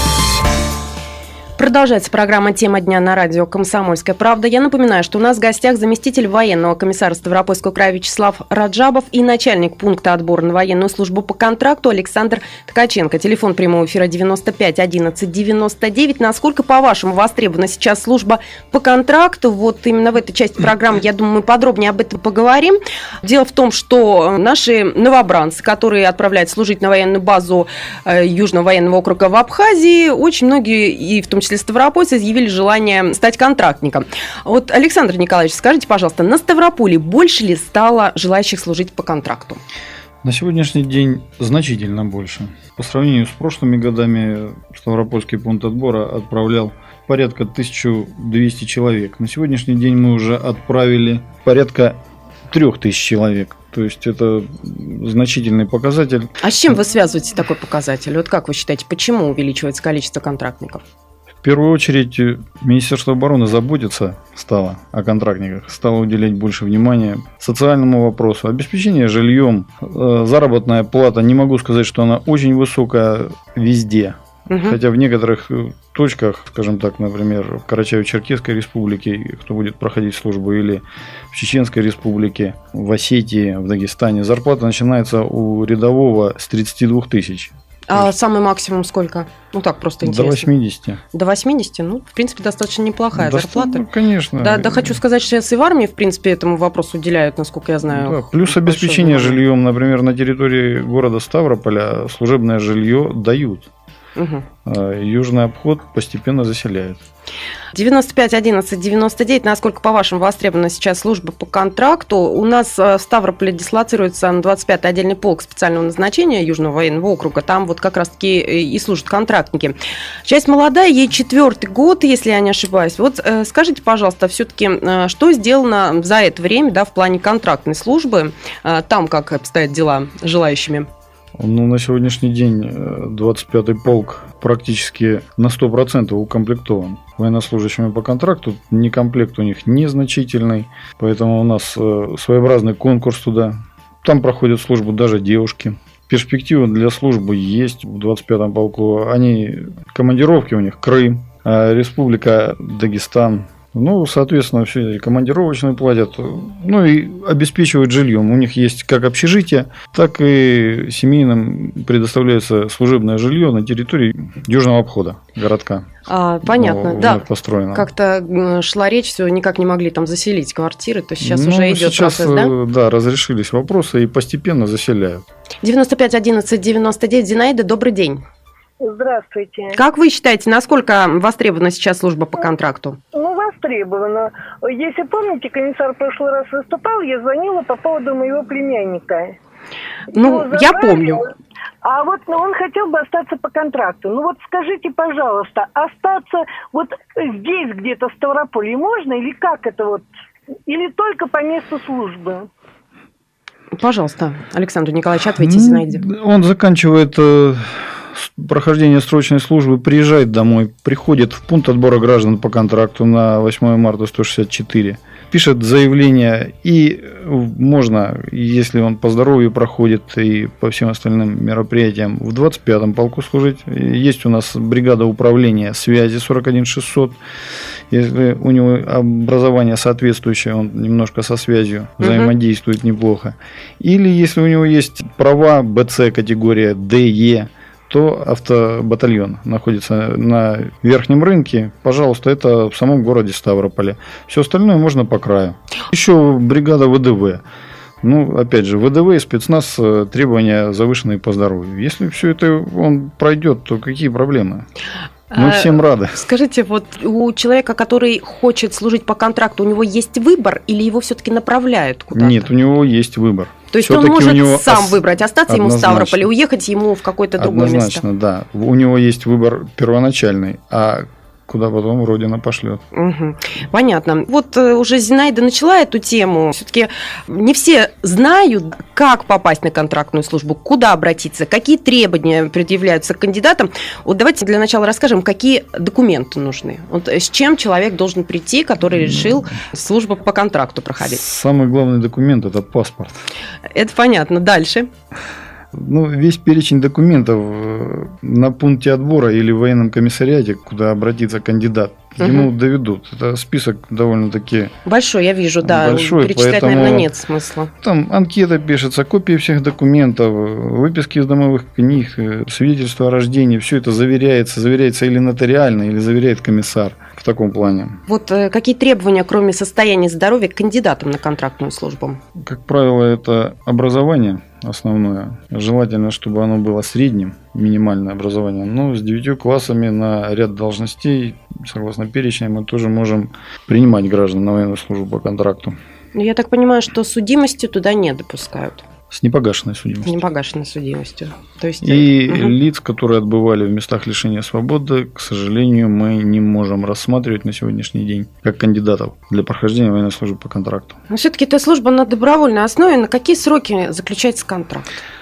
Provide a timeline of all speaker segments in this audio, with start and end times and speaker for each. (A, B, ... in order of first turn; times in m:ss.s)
0:01.6-0:39.6 A
0:40.2-0:52.0 B
0:52.5-0:56.5 B
0:56.4-1:00.8 A
1:01.4-1:28.1 B
1:14.5-1:14.8 A
1:27.9-1:30.5 A
1:30.0-1:31.0 B
1:31.1-1:33.8 A
1:33.1-1:35.0 B
1:34.4-1:39.4 A
1:37.8-1:43.7 B
1:44.2-1:44.4 A
1:44.6-1:47.0 B
1:47.7-2:10.9 A
2:11.4-2:45.9 B
2:46.1-2:52.5 A
2:46.4-2:47.9 B
2:51.2-2:55.2 B
2:55.6-2:58.2 A
2:58.8-2:59.8 C
2:59.7-3:03.0 A
3:03.1-3:09.4 C
3:10.1-3:11.2 A
3:10.2-3:11.3 C
3:11.8-3:20.0 C
3:20.7-3:22.5 C
3:23.7-3:26.1 A
3:25.4-3:47.2 B
3:47.9-4:07.4 B
3:52.0-3:52.3 A
4:08.0-4:14.6 B
4:15.3-4:22.5 A
4:15.3-4:16.2 B
4:22.1-4:26.3 B
4:23.7-4:28.0 A
4:27.4-4:32.8 B
4:32.9-4:51.2 A
4:49.0-4:49.5 B
4:51.0-4:53.2 B
4:53.7-4:54.9 A
4:55.7-5:04.8 B
5:02.2-5:02.5 A
5:04.8-5:07.7 A
5:05.6-5:07.1 B
5:07.8-5:18.0 B
5:18.1-5:22.2 A
5:22.4-5:35.8 B
5:36.1-5:38.8 A
5:39.1-5:40.2 B
5:40.0-5:42.5 A
5:41.8-5:51.0 B
5:51.1-5:55.0 A